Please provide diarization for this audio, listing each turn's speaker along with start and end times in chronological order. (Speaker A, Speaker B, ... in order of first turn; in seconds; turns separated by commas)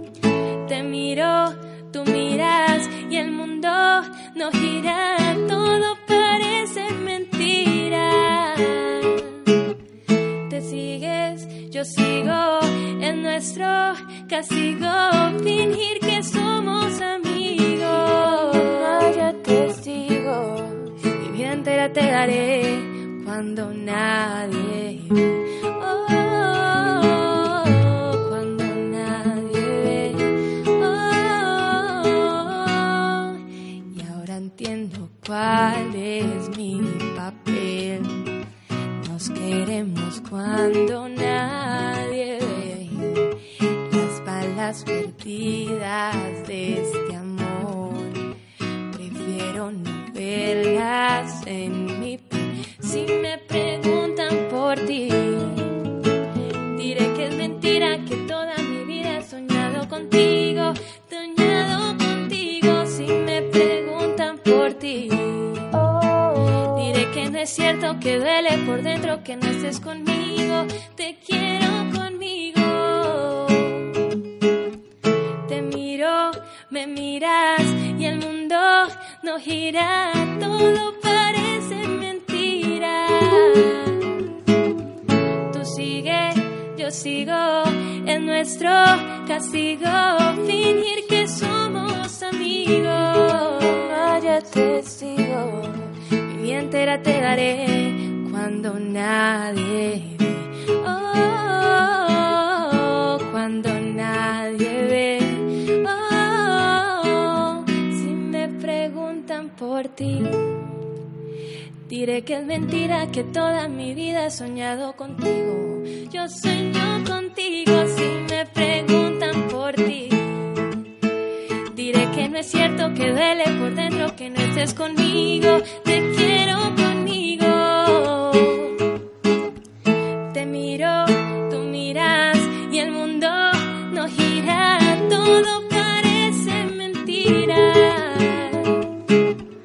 Speaker A: 0.7-9.2, Speaker A: 10.5-33.4, Speaker A: 33.9-38.3, Speaker A: 39.0-43.4, Speaker A: 43.9-48.2, Speaker A: 48.9-55.8, Speaker A: 56.7-65.8, Speaker A: 66.7-73.9, Speaker A: 75.5-84.0, Speaker A: 85.5-110.5, Speaker A: 111.9-120.5, Speaker A: 121.7-128.7, Speaker A: 130.3-138.8